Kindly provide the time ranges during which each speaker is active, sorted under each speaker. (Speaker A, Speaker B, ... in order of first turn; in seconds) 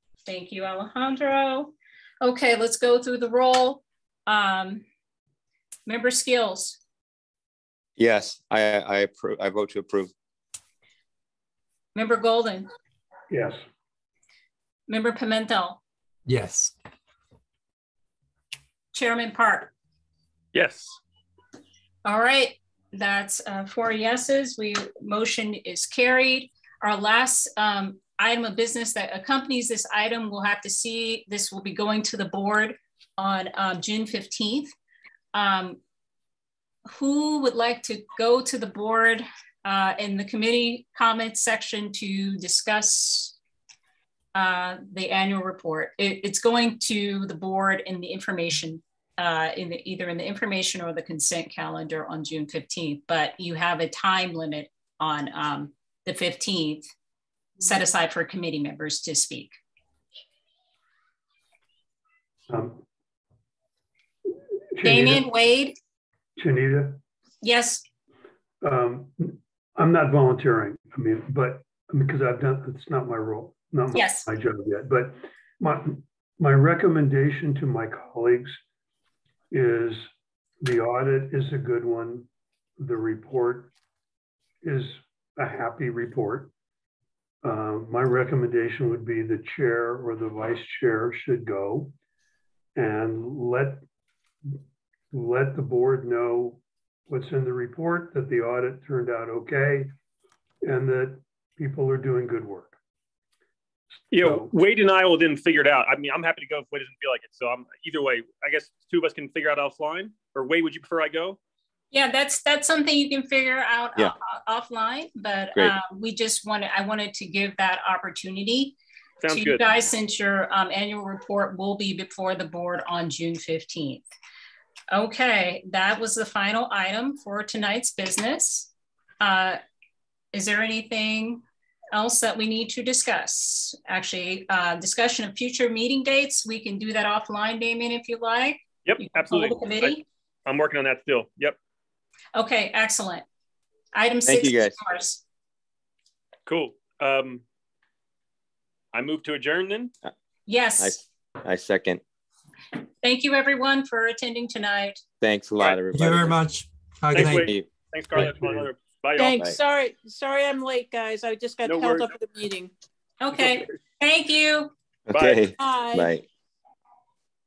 Speaker A: 0.3-4.8, 5.9-6.8, 11.9-12.7, 14.9-15.8, 18.9-19.7, 22.0-34.7, 35.3-35.8, 36.9-43.4, 44.4-56.9, 57.6-59.5, 64.8-65.8, 67.4-67.8, 73.9-74.3, 111.9-118.8, 119.3-124.1, 124.9-129.6, 130.3-140.0, 142.3-143.2, 143.9-145.2, 150.5-151.0, 153.0-155.0, 163.2-164.7
Speaker B: 8.0-10.1, 144.2-144.8, 150.8-152.0, 155.2-156.4, 157.3-157.7, 165.1-166.2
Speaker C: 13.3-13.6, 62.5-62.9, 64.8-65.3, 66.4-67.0, 68.6-78.6, 79.5-80.1, 80.6-82.3, 82.8-83.7, 84.6-86.5, 87.4-91.9, 92.8-93.8, 95.1-99.9, 100.6-102.8, 104.2-104.5, 158.2-158.7
Speaker D: 16.3-16.8, 155.9-157.5
Speaker E: 20.5-21.0, 104.1-111.4, 119.2-119.6, 138.9-140.0, 140.5-141.6, 146.5-147.4, 148.9-149.9, 157.1-159.4, 161.6-162.1, 165.1-165.5
Speaker F: 159.2-162.7, 165.6-166.2